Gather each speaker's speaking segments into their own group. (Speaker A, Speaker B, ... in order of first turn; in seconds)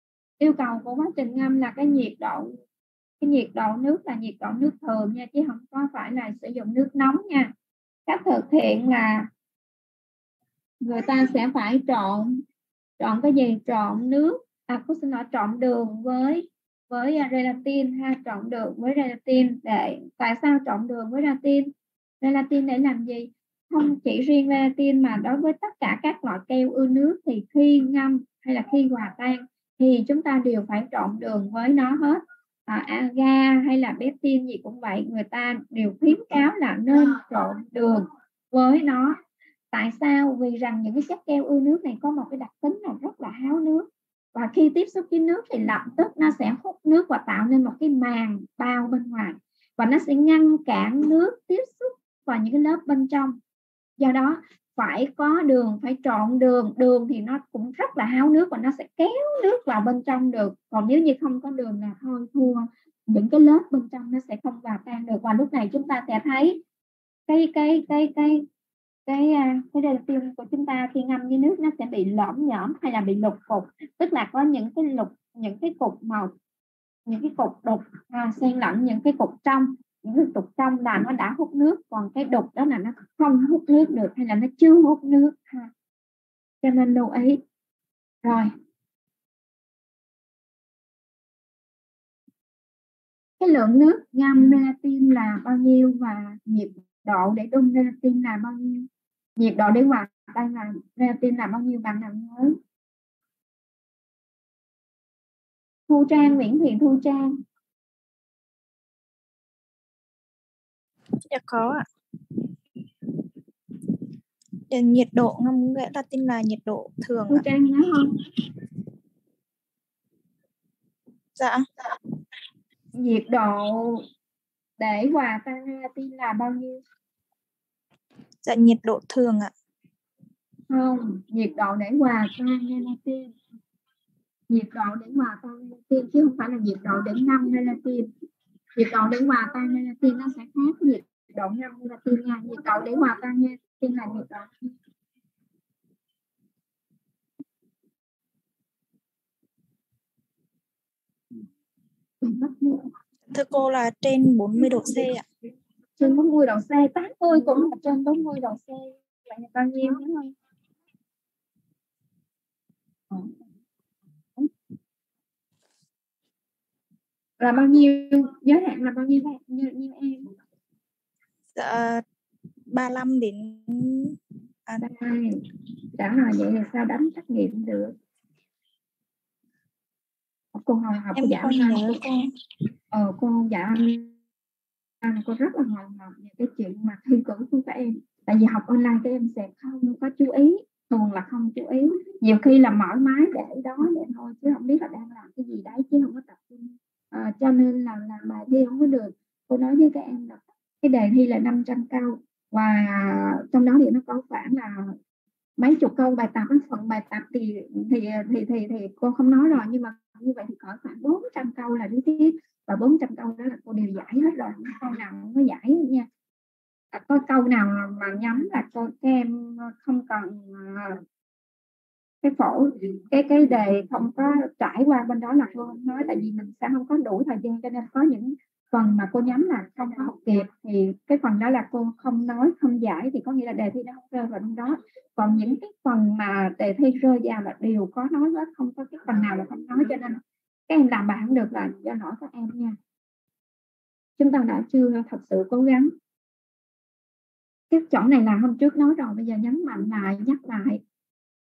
Speaker A: 0.4-2.5, 3.2-7.5, 8.1-9.3, 10.8-12.4, 13.0-21.7, 22.2-39.2, 39.7-53.4, 54.0-66.6, 67.3-68.5, 69.1-76.3, 77.1-85.7, 86.6-87.4, 88.2-88.5, 93.4-102.6, 105.9-107.3, 117.3-118.1, 123.0-124.0, 124.8-126.8, 130.7-133.3, 134.5-138.1, 138.8-144.5, 152.2-152.9, 156.0-160.3, 167.4-170.2, 174.8-175.4, 176.0-177.9, 180.6-181.9, 182.9-184.1, 185.0-204.9, 205.6-216.1, 216.9-221.0, 222.2-242.8, 244.2-245.9, 247.7-250.8
Speaker B: 111.3-111.8, 114.7-117.4, 121.4-121.7, 128.4-129.5, 153.3-155.2, 171.6-172.0, 172.7-174.2, 181.2-182.2